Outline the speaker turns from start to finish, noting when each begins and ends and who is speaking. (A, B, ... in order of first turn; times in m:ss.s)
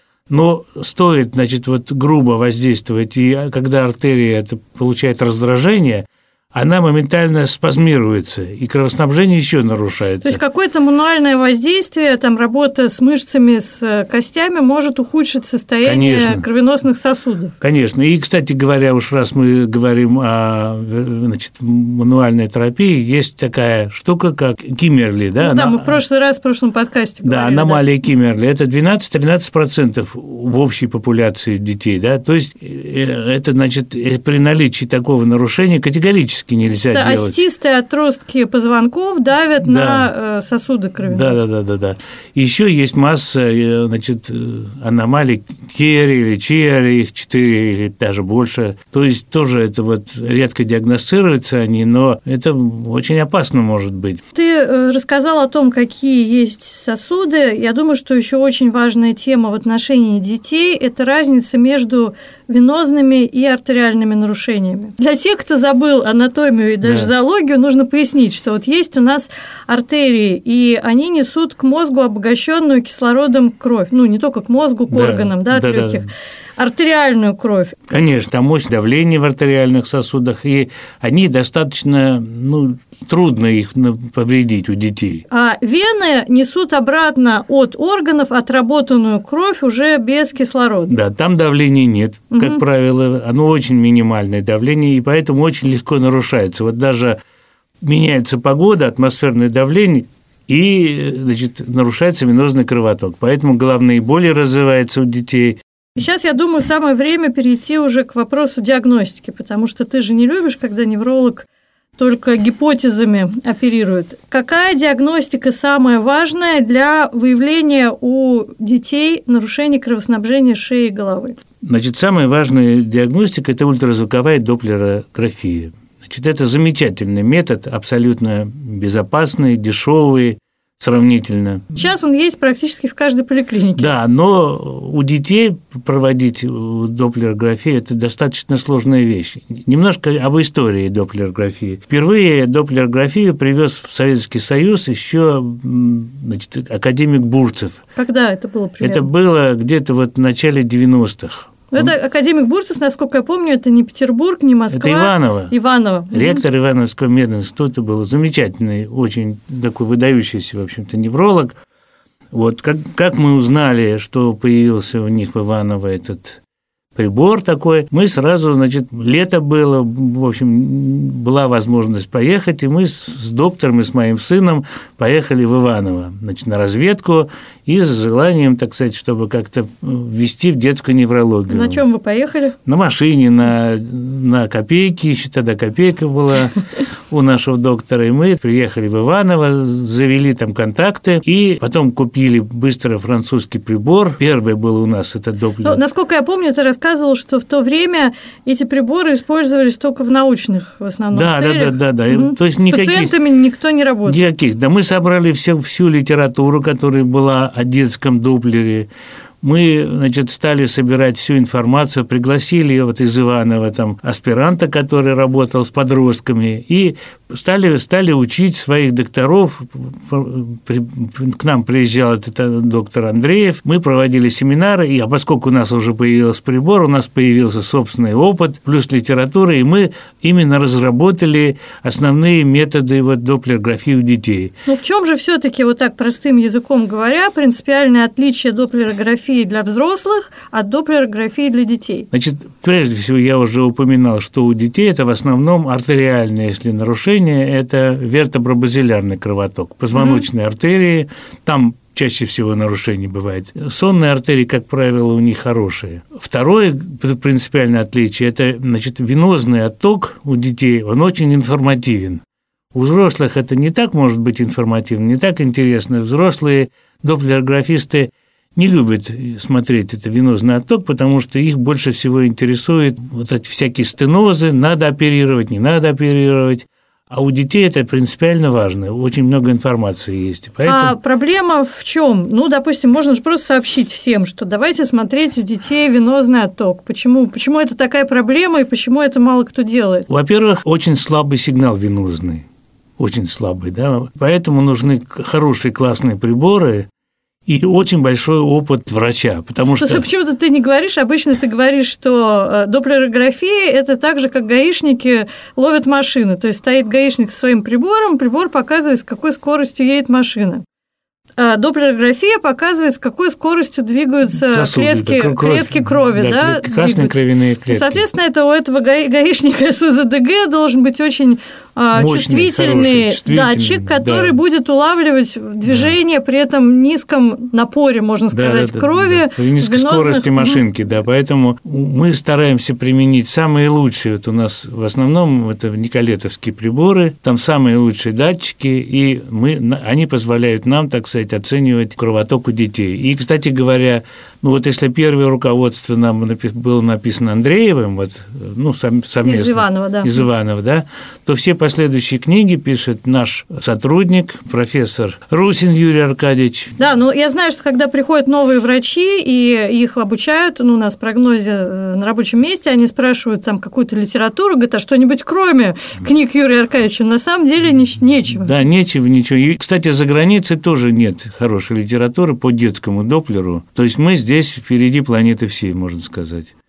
0:00.3-0:10.4 A
0:10.2-0:17.5 B
0:15.8-0:16.4 A
0:17.6-0:26.0 A
0:25.4-0:27.8 B
0:27.2-0:37.4 A
0:36.8-0:41.4 B
0:39.6-0:40.1 A
0:41.0-0:54.2 A
0:54.3-1:17.8 B
1:06.8-1:07.1 A
1:14.9-1:16.1 A
1:17.9-1:25.2 A
1:25.3-1:30.9 B
1:30.9-1:37.2 A
1:32.3-1:32.6 B
1:37.8-1:45.6 A
1:46.0-1:51.5 B
1:52.0-2:01.4 B
2:01.6-2:11.7 A
2:11.7-2:13.9 B
2:13.8-2:27.8 A
2:28.0-2:29.1 B
2:28.8-2:31.9 A
2:31.7-2:36.4 B
2:34.7-2:35.5 A
2:36.1-2:41.5 A
2:42.3-2:46.4 A
2:46.9-3:01.8 A
3:01.5-3:02.6 B
3:02.6-3:06.6 A
3:07.1-3:15.8 A
3:15.6-3:24.2 B
3:21.1-3:23.1 A
3:24.0-3:28.9 A
3:29.4-3:54.5 A
3:54.7-4:02.1 B
4:02.1-4:22.2 A
4:09.9-4:10.2 B
4:22.7-4:40.9 A
4:40.6-4:50.0 B
4:50.1-4:52.4 A
4:53.0-4:56.9 A
4:57.4-5:00.0 A
4:59.7-5:10.6 B
5:11.4-5:30.6 B
5:14.4-5:18.0 A
5:21.9-5:24.4 A
5:25.6-5:25.9 A
5:28.3-5:56.8 A
5:49.2-5:50.2 B
5:56.8-6:08.5 B
6:08.3-6:16.5 A